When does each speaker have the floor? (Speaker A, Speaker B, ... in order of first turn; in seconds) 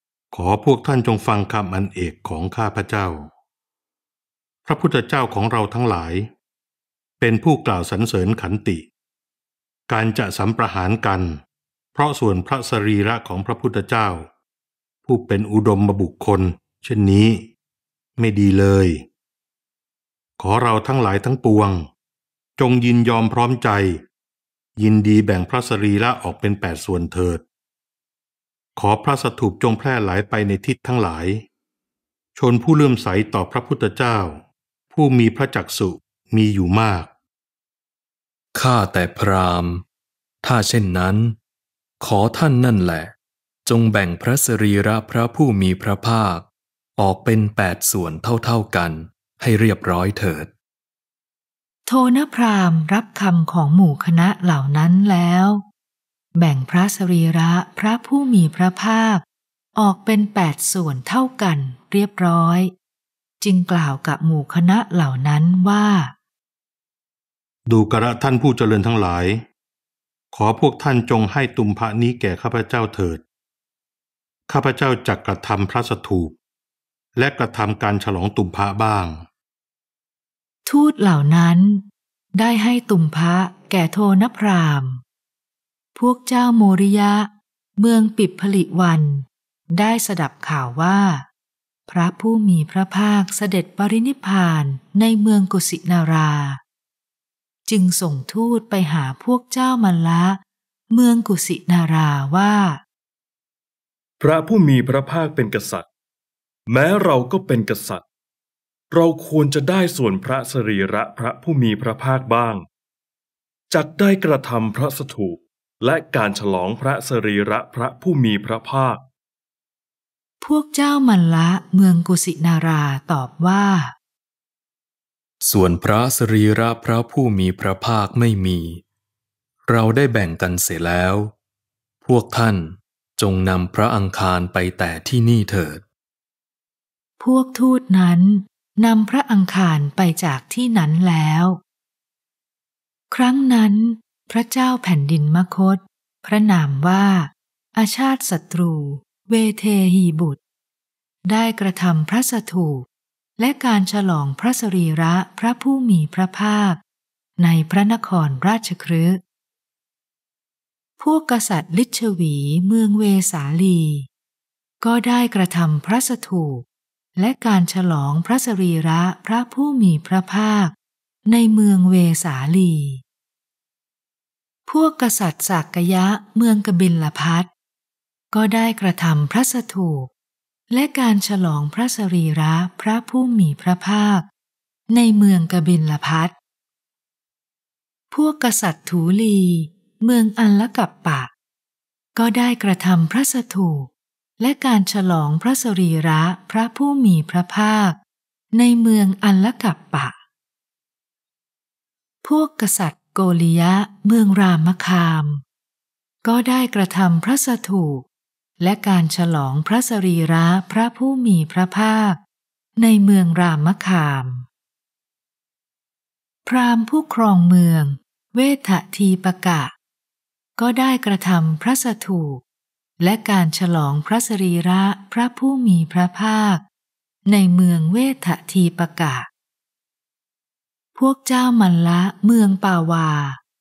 Speaker A: 0.3-3.3, 4.7-6.3, 7.2-8.8, 9.9-11.4, 11.9-14.2, 15.1-17.4, 18.2-19.0, 20.4-21.8, 22.6-24.0, 24.8-27.4, 28.8-31.4, 32.4-34.4, 34.9-37.1, 67.7-69.4, 70.3-73.2, 74.5-76.3, 77.2-79.2
Speaker B: 38.5-39.8, 40.4-41.4, 42.0-43.1, 43.6-46.4, 47.0-50.5, 125.4-128.8, 129.7-131.3, 132.0-135.8
Speaker C: 51.9-55.6, 56.4-59.2, 59.8-62.7, 63.4-66.1, 80.7-81.8, 82.3-85.0, 86.0-91.2, 91.9-96.6, 97.7-102.8, 120.4-123.9, 137.2-141.6, 143.1-150.4, 151.2-152.8, 153.4-156.8, 157.4-159.2, 161.0-164.1, 164.8-170.7, 171.3-173.0, 174.7-177.5, 178.3-180.1, 180.7-184.2, 184.9-186.3, 188.1-191.3, 192.2-193.9, 194.4-198.0, 198.5-200.1, 202.2-205.4, 206.2-208.0, 208.6-212.2, 212.8-214.5, 216.4-219.7, 220.6-222.4, 223.0-226.6, 227.3-229.3, 230.9-233.4
Speaker D: 104.2-105.8, 106.7-108.0, 108.9-112.6, 113.7-119.0